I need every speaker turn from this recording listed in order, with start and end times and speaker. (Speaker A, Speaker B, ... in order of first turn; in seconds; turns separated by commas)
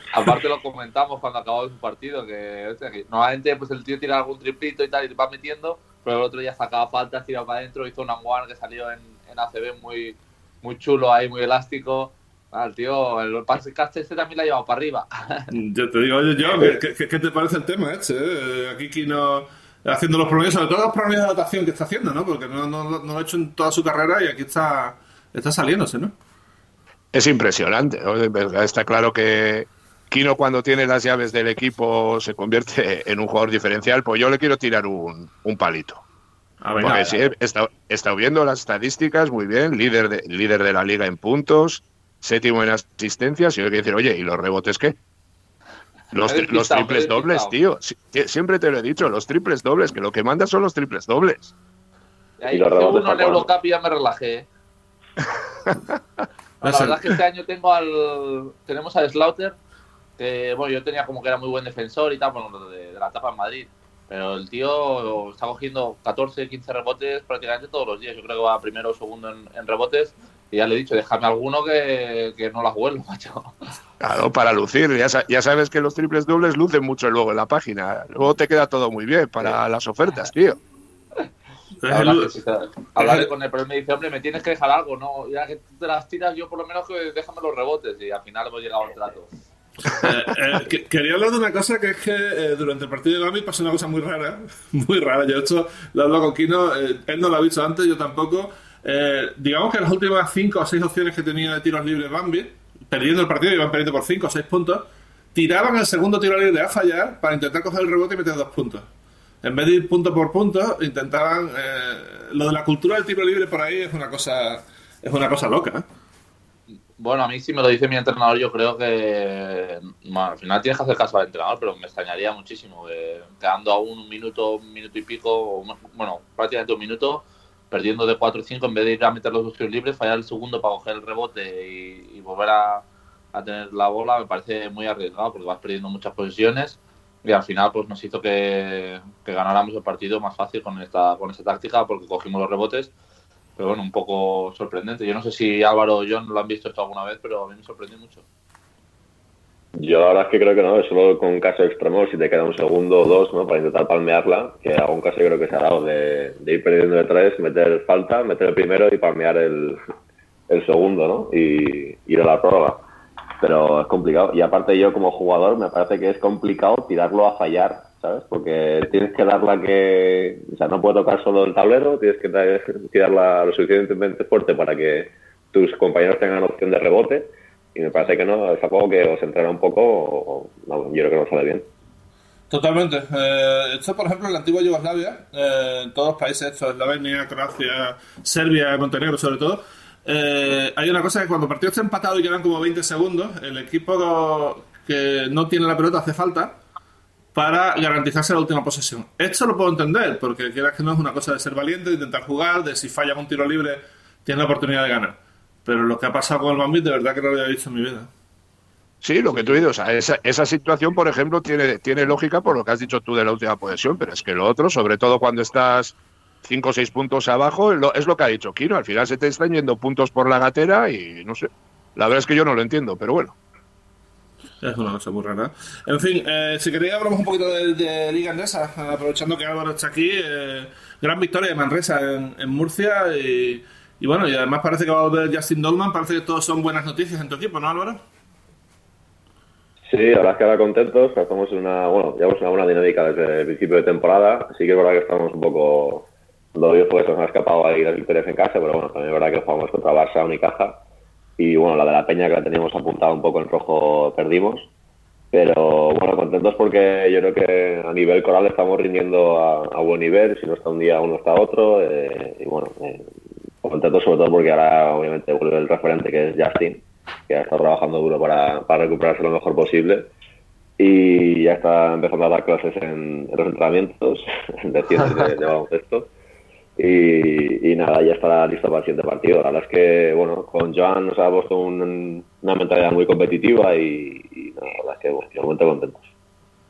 Speaker A: 0.1-15.5, Speaker B: 15.5-26.1, Speaker C: 27.1-36.0, Speaker B: 36.6-37.0, Speaker A: 36.8-37.2, Speaker C: 36.8-45.0, Speaker C: 46.1-51.5, Speaker A: 46.2-47.5, Speaker A: 52.4-54.5, Speaker D: 52.5-53.5, Speaker A: 56.6-59.5, Speaker B: 56.6-57.0, Speaker A: 60.2-73.5, Speaker C: 74.0-80.6, Speaker B: 81.8-82.3, Speaker A: 81.9-89.3, Speaker B: 83.0-83.3, Speaker B: 89.9-108.8, Speaker B: 109.4-115.8, Speaker A: 117.0-142.9, Speaker A: 143.6-148.2, Speaker D: 149.8-159.8, Speaker D: 160.5-162.9, Speaker D: 163.4-181.7, Speaker B: 182.5-196.6, Speaker B: 197.3-208.1, Speaker C: 209.0-223.4, Speaker B: 224.6-238.0, Speaker D: 239.9-250.8, Speaker D: 251.4-254.7, Speaker D: 255.3-263.0, Speaker D: 263.6-270.1, Speaker D: 270.8-276.1, Speaker D: 276.8-286.1